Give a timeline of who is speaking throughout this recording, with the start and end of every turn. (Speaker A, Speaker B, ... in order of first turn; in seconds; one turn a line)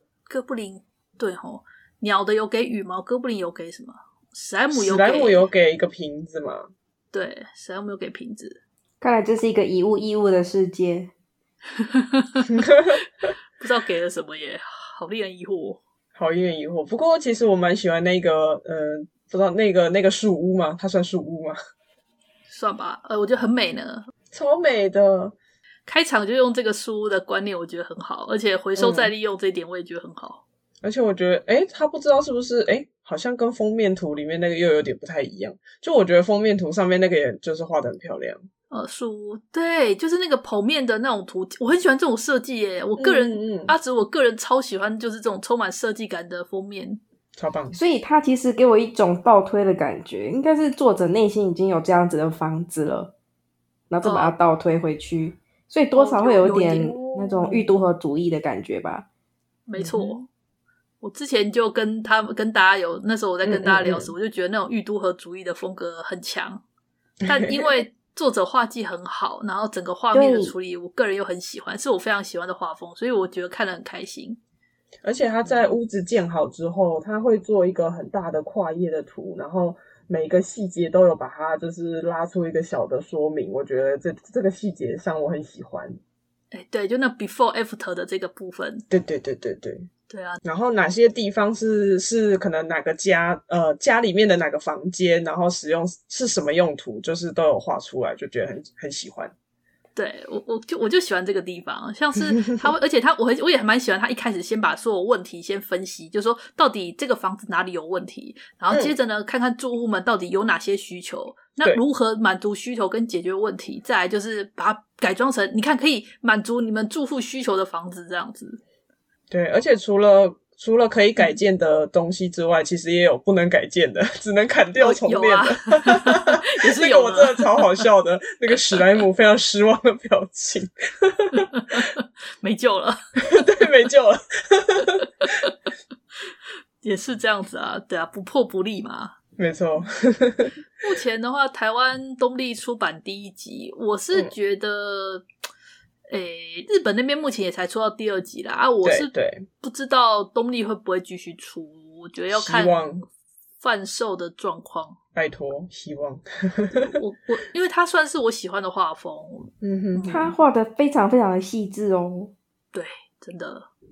Speaker A: 0.3-5.4
Speaker B: 4.7-6.7
Speaker A: 7.1-8.6
Speaker C: 9.0-11.1
Speaker A: 11.9-12.6
Speaker A: 13.6-15.8
Speaker B: 16.1-21.6
Speaker A: 22.5-24.1
Speaker B: 24.3-25.4
Speaker A: 25.9-30.4
Speaker B: 28.8-29.1
Speaker B: 30.8-38.4
Speaker A: 38.7-47.0
Speaker B: 43.0-43.8
Speaker B: 47.4-47.8
Speaker C: 47.7-53.1
Speaker C: 53.9-59.1
Speaker A: 54.0-54.4
Speaker A: 55.9-56.8
Speaker B: 56.5-57.7
Speaker A: 59.7-60.3
Speaker B: 59.8-60.2
Speaker A: 61.0-66.6
Speaker B: 63.4-64.1
Speaker A: 67.3-74.4
Speaker C: 70.1-70.5
Speaker B: 75.0-86.0
Speaker A: 75.4-75.8
Speaker A: 86.5-88.8
Speaker B: 88.9-89.9
Speaker A: 90.1-90.4
Speaker B: 90.4-99.3
Speaker A: 99.9-118.6
Speaker B: 119.3-131.5
Speaker A: 124.8-127.8
Speaker A: 131.4-133.0
Speaker B: 133.2-135.0
Speaker A: 135.0-135.5
Speaker A: 136.8-139.1
Speaker B: 139.4-140.5
Speaker A: 140.8-145.2
Speaker A: 146.1-152.8
Speaker B: 148.8-149.4
Speaker B: 152.3-153.0
Speaker A: 153.6-155.0
Speaker B: 155.1-156.9
Speaker A: 156.9-160.3
Speaker B: 159.6-160.3
Speaker C: 160.0-162.3
Speaker A: 162.7-163.7